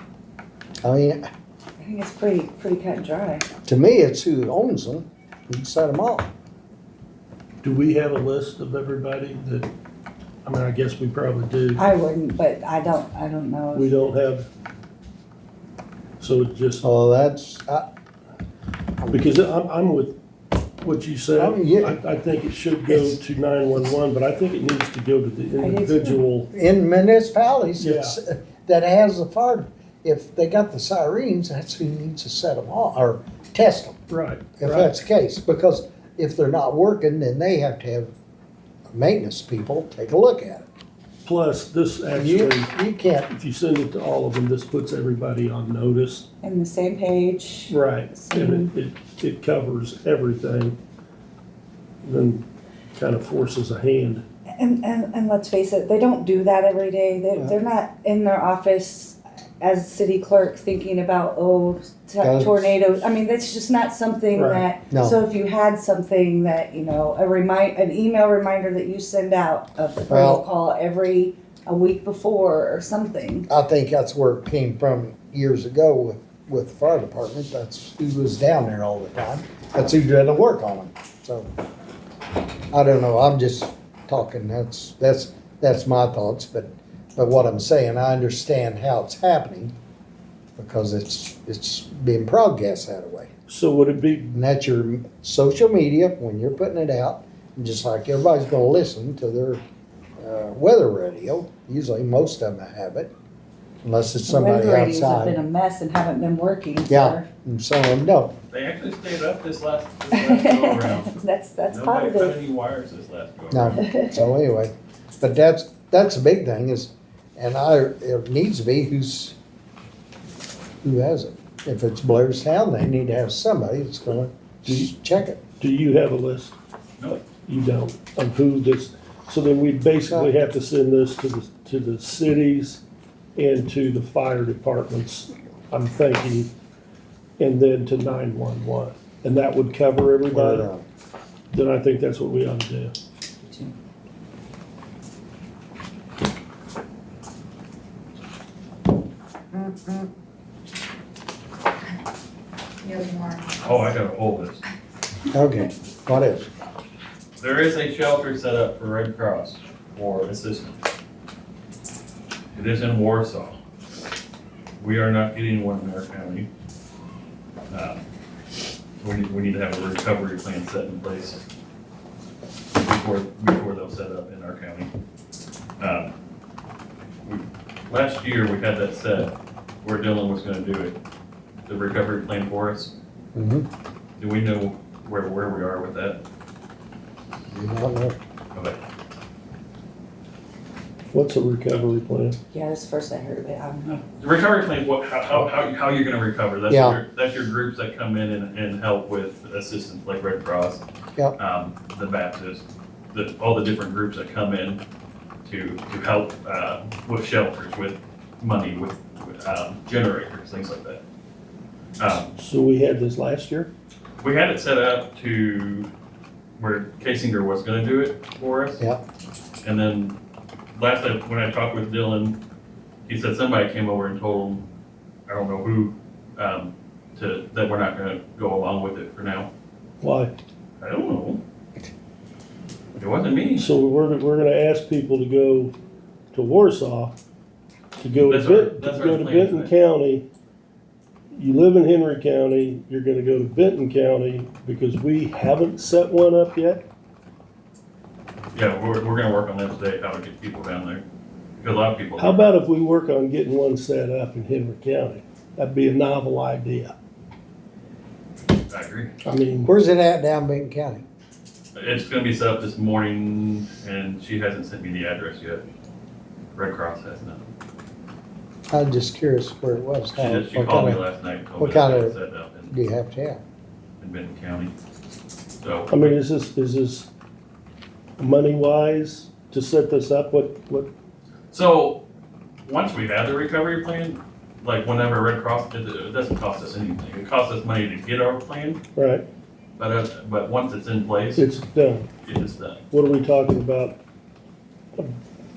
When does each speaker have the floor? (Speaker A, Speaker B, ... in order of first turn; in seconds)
Speaker A: 0.8-1.2, 3.7-6.3, 16.8-17.9, 21.4-22.0, 26.5-34.0, 34.6-38.1, 38.9-40.7, 42.1-43.3, 62.2-62.8, 64.9-65.2, 70.1-70.4, 73.5-81.5, 82.7-89.7, 90.6-93.3, 94.3-99.6, 100.2-103.1, 103.8-105.4, 106.9-108.3, 113.5-119.4, 120.8-125.4, 140.3-140.8, 155.3-156.5, 183.3-183.7, 187.5-188.2, 196.7-197.0, 259.7-261.1, 268.7-271.0, 271.6-272.2, 272.7-273.4
Speaker B: 1.8-3.5, 11.8-13.9, 25.6-26.2, 46.4-48.7, 54.6-73.5, 104.3-107.3, 110.1-112.4, 113.8-114.2, 143.4-143.7, 149.5-150.1, 152.8-153.6, 192.5-194.0
Speaker C: 7.6-9.7, 10.4-11.8, 13.7-14.5, 16.2-16.8, 19.1-20.2, 20.8-26.5, 27.8-28.2, 34.1-34.9, 41.2-42.7, 43.3-46.3, 47.7-50.8, 52.0-52.4, 53.0-54.2, 64.3-64.7, 93.5-94.3, 124.7-124.9, 125.6-126.5, 127.5-132.8, 133.4-136.5, 137.4-140.7, 141.5-142.9, 191.1-192.4, 212.3-213.7, 230.0-230.3, 233.6-235.7, 236.3-237.2, 238.0-240.3, 241.3-246.8, 252.2-256.9, 259.2-259.7, 275.9-277.1, 278.2-280.9, 289.0-289.2, 291.4-292.1, 292.9-294.0
Speaker D: 108.5-111.1, 111.7-113.8, 153.6-154.6, 157.4-160.8, 162.5-163.6, 164.8-166.5, 167.7-168.0, 169.0-171.4, 172.8-174.9, 175.8-176.1, 177.2-181.0, 181.7-182.9, 184.2-186.2, 188.5-188.8, 194.2-200.8, 201.4-204.8, 205.4-211.0, 212.0-212.3, 214.2-215.9, 216.6-218.8, 219.6-220.2, 220.8-222.4, 223.1-224.7, 225.3-229.5, 230.8-231.4, 233.0-233.7, 238.3-239.7, 248.5-251.0, 251.6-252.5, 258.7-259.1, 261.7-265.6, 266.6-267.4, 270.1-272.7, 274.0-274.7, 275.6-276.2, 281.5-282.0, 282.6-288.8, 289.8-291.5, 292.2-292.8